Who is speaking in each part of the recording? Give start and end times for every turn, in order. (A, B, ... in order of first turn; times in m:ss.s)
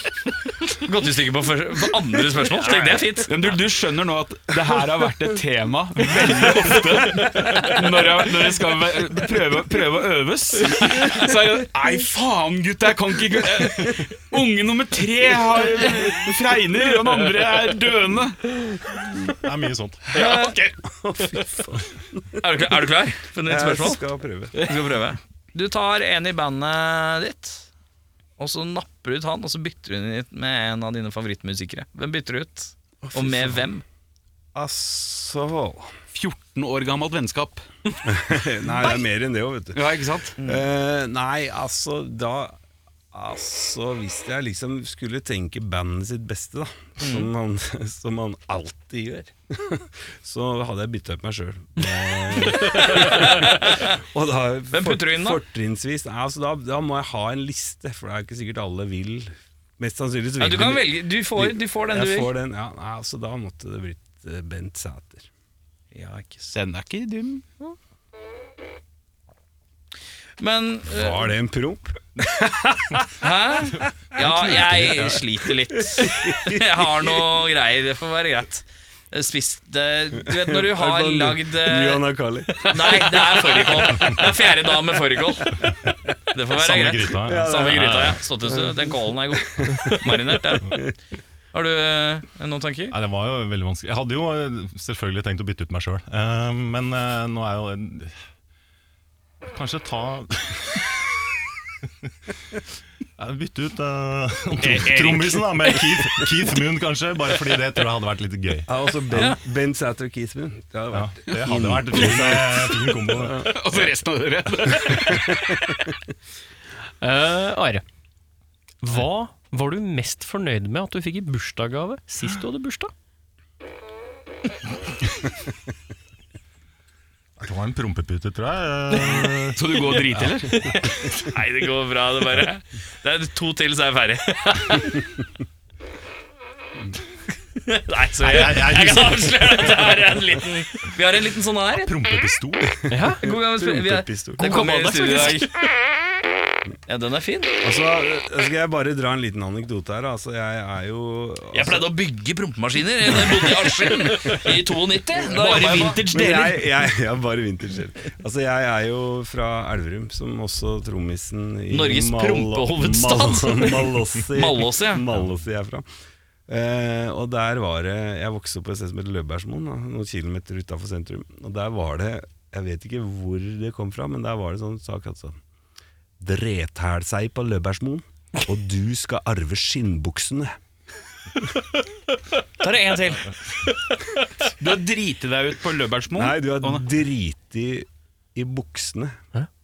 0:00.7-0:03.6 A
0:02.6-0:18.4 B
0:19.4-0:20.1 C
0:20.1-0:20.6 A
0:20.2-0:20.7 B
0:20.8-0:22.4 D
0:22.4-0:24.0 A
0:23.5-0:24.7 D
0:24.6-0:27.7 A
0:28.4-0:33.8 A
0:33.0-0:33.7 D
0:34.6-0:35.9 D
0:36.1-0:37.7 B
0:38.0-0:42.6 D
0:39.7-0:40.4 B
0:40.4-0:40.6 A
0:43.1-1:05.3 D
0:47.0-0:47.3 A
0:52.5-0:54.0 A
0:54.7-0:55.4 A
1:00.4-1:02.3 A
1:05.9-1:06.5 A
1:06.5-1:07.4 B
1:10.4-1:11.3 A
1:10.9-1:13.2 D
1:13.2-1:22.0 A
1:13.8-1:17.2 D
1:20.3-1:24.6 D
1:22.6-1:25.6 A
1:26.3-1:30.8 A
1:26.6-1:28.2 C
1:27.2-1:30.8 D
1:31.5-1:33.0 A
1:32.9-1:38.2 C
1:39.5-1:41.2 C
1:43.2-1:48.7 C
1:44.6-1:45.5 B
1:48.7-1:53.5 D
1:49.1-1:49.4 A
1:50.9-1:53.5 C
1:53.4-1:55.4 B
1:54.9-1:55.3 D
1:57.0-1:57.8 E
1:58.8-2:02.9 E
2:07.4-2:11.0 C
2:09.5-2:10.7 B
2:11.3-2:15.0 A
2:17.6-2:21.9 A
2:18.2-2:19.6 C
2:21.8-2:22.9 C
2:22.9-2:23.2 E
2:23.1-2:24.6 D
2:23.2-2:25.5 A
2:24.4-2:25.5 E
2:26.9-2:27.6 A
2:27.6-2:31.9 D
2:31.5-2:36.2 A
2:33.3-2:34.5 D
2:35.2-2:36.6 B
2:36.1-2:45.8 D
2:41.7-2:45.0 A
2:46.5-2:55.4 D
2:56.2-3:00.6 D
3:02.6-3:03.4 A
3:04.6-3:06.9 B
3:06.2-3:09.2 D